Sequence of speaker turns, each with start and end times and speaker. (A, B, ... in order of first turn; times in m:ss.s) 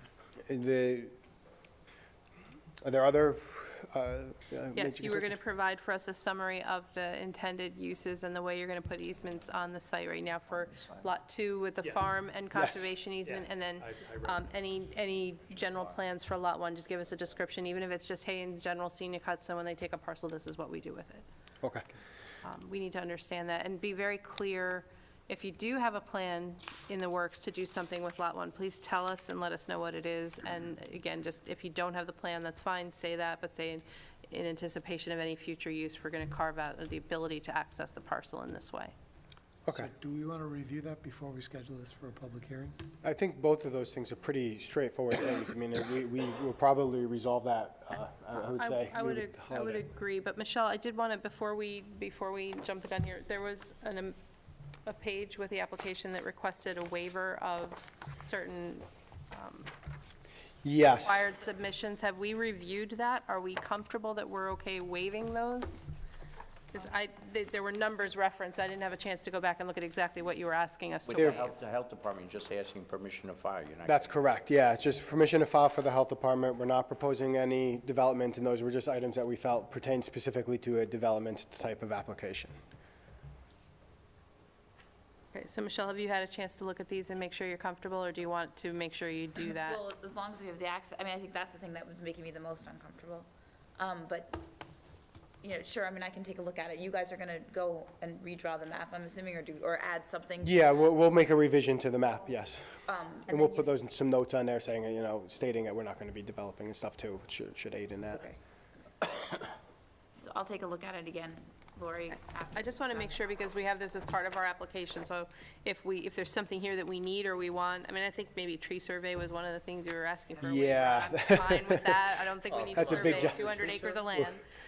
0:00.5-0:01.1 A
0:02.8-0:05.4 A
0:04.7-0:21.2 B
0:12.5-0:12.9 A
0:22.4-0:38.9 B
0:39.7-0:42.8 C
0:43.0-0:49.8 A
0:48.5-0:54.2 B
0:54.8-0:59.7 B
1:00.6-1:01.2 A
1:01.0-1:05.9 B
1:06.7-1:11.5 B
1:11.0-1:14.2 D
1:11.2-1:11.4 A
1:13.8-1:22.5 A
1:25.3-1:29.8 B
1:29.6-1:34.4 E
1:35.4-1:41.0 E
1:40.4-1:48.2 A
1:42.9-1:43.7 E
1:50.2-1:53.1 E
1:52.1-2:04.4 B
2:00.4-2:02.1 A
2:02.6-2:04.3 A